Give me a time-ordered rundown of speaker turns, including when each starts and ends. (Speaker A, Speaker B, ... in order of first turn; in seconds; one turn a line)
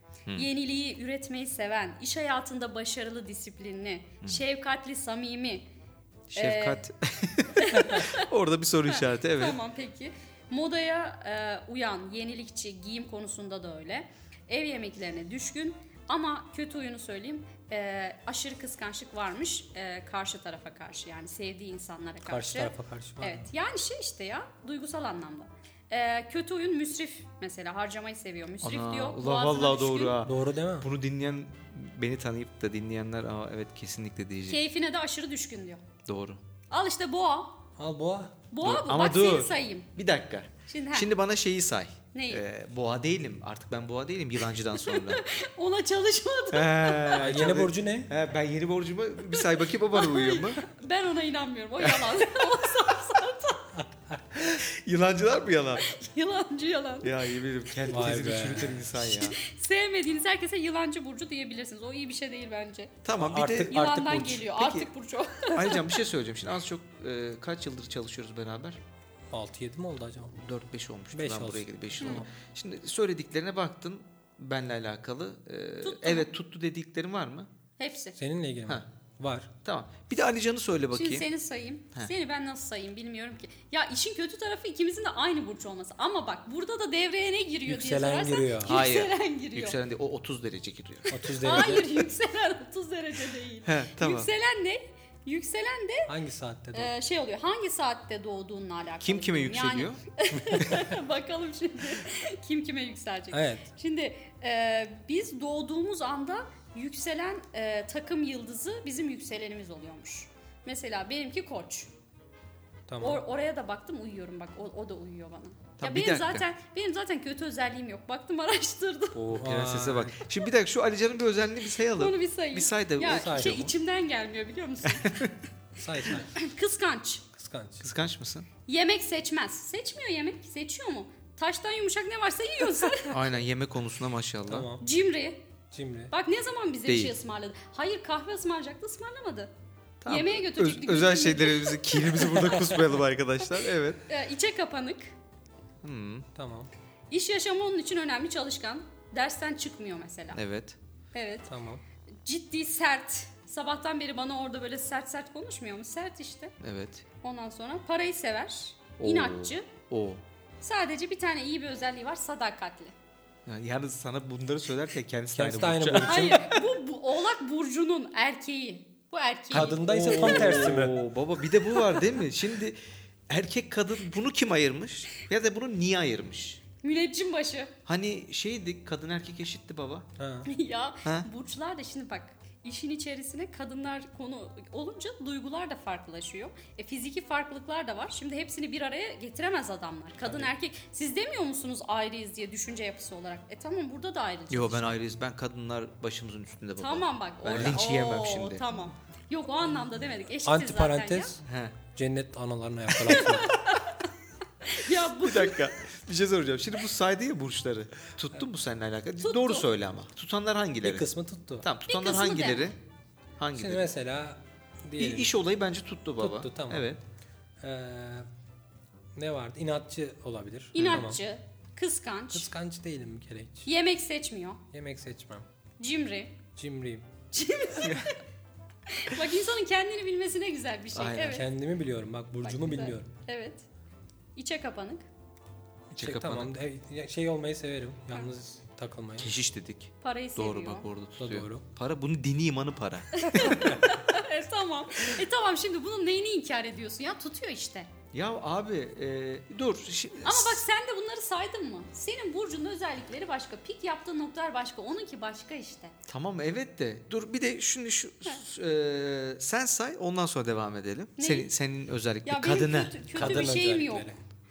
Speaker A: 0.3-5.6
Speaker B: 6.3-9.6
Speaker A: 6.3-6.8
Speaker A: 7.6-8.3
Speaker A: 8.9-30.2
Speaker C: 22.2-23.5
Speaker B: 28.6-34.6
Speaker C: 30.2-30.9
Speaker A: 34.5-35.8
Speaker B: 36.0-36.4
Speaker A: 36.7-37.6
Speaker C: 37.8-38.4
Speaker A: 38.5-39.9
Speaker B: 38.6-45.2
Speaker A: 40.7-41.1
Speaker A: 42.1-42.4
Speaker A: 44.7-47.3
Speaker B: 46.5-50.6
Speaker C: 47.1-48.1
Speaker A: 49.9-53.8
Speaker B: 54.3-55.9
Speaker A: 55.8-57.1
Speaker B: 57.0-59.4
Speaker C: 57.9-58.7
Speaker A: 59.0-63.0
Speaker B: 63.0-64.9
Speaker C: 63.1-64.5
Speaker A: 63.6-66.0
Speaker B: 65.5-68.8
Speaker C: 69.3-70.3
Speaker B: 70.3-77.5
Speaker C: 71.1-72.3
Speaker A: 75.8-76.3
Speaker A: 77.8-78.2
Speaker C: 78.2-79.5
Speaker B: 79.6-81.3
Speaker A: 80.9-89.8
Speaker C: 87.7-88.8
Speaker B: 88.6-91.1
Speaker C: 91.1-91.8
Speaker A: 91.4-96.1
Speaker B: 93.7-94.3
Speaker C: 96.1-96.9
Speaker A: 96.7-111.9
Speaker B: 99.0-100.0
Speaker C: 100.3-100.7
Speaker C: 103.3-103.7
Speaker C: 112.9-113.2
Speaker A: 113.0-119.2
Speaker B: 115.8-116.5
Speaker B: 119.1-123.7
Speaker C: 119.3-120.2
Speaker A: 121.9-125.3
Speaker C: 123.0-123.6
Speaker B: 124.8-125.3
Speaker C: 125.8-126.3
Speaker A: 126.1-127.2
Speaker C: 127.3-127.9
Speaker B: 127.8-128.5
Speaker A: 128.7-133.2
Speaker B: 133.1-134.7
Speaker C: 134.5-134.8
Speaker A: 134.8-135.4
Speaker C: 135.7-136.1
Speaker A: 136.1-139.5
Speaker B: 136.9-137.1
Speaker B: 140.0-144.0
Speaker A: 140.1-142.5
Speaker A: 144.1-145.1
Speaker B: 145.8-146.3
Speaker C: 146.3-146.7
Speaker A: 147.1-150.4
Speaker B: 150.3-150.8
Speaker A: 151.1-151.5
Speaker C: 151.5-151.8
Speaker A: 152.2-156.5
Speaker B: 156.6-157.0
Speaker A: 157.2-159.7
Speaker B: 159.0-160.2
Speaker A: 160.6-162.9
Speaker B: 163.4-166.5
Speaker C: 165.3-166.6
Speaker A: 166.0-169.8
Speaker B: 169.5-176.6
Speaker C: 169.5-171.0
Speaker A: 176.8-177.7
Speaker B: 177.8-180.1
Speaker C: 180.2-180.5
Speaker A: 180.5-194.9
Speaker C: 190.2-190.5
Speaker B: 194.5-198.6
Speaker A: 196.8-201.3
Speaker C: 200.4-201.4
Speaker B: 201.4-201.8
Speaker C: 201.9-203.5
Speaker A: 203.0-204.1
Speaker A: 204.6-205.7
Speaker B: 205.2-211.1
Speaker A: 209.2-209.7
Speaker C: 210.8-211.7
Speaker B: 211.6-212.8
Speaker A: 211.9-212.7
Speaker B: 213.4-213.9
Speaker C: 213.5-215.3
Speaker B: 215.0-217.0
Speaker C: 216.2-216.8
Speaker C: 217.6-218.3
Speaker C: 219.2-221.2
Speaker A: 220.7-222.5
Speaker B: 220.8-221.1
Speaker C: 222.3-223.7
Speaker A: 223.7-224.6
Speaker C: 224.7-225.4
Speaker A: 225.8-226.3
Speaker C: 226.6-227.1
Speaker A: 227.3-228.2
Speaker A: 228.9-231.5
Speaker B: 230.9-231.4
Speaker C: 231.2-233.1
Speaker A: 232.4-233.6
Speaker A: 234.3-235.0
Speaker C: 235.9-239.3
Speaker B: 235.9-236.5
Speaker B: 239.2-243.2
Speaker A: 240.0-240.9
Speaker C: 241.2-241.6
Speaker A: 243.1-247.9
Speaker C: 243.3-243.8
Speaker B: 248.1-250.6
Speaker A: 250.2-255.9
Speaker B: 256.1-263.5
Speaker A: 261.2-261.5
Speaker A: 262.2-264.1
Speaker C: 263.1-264.2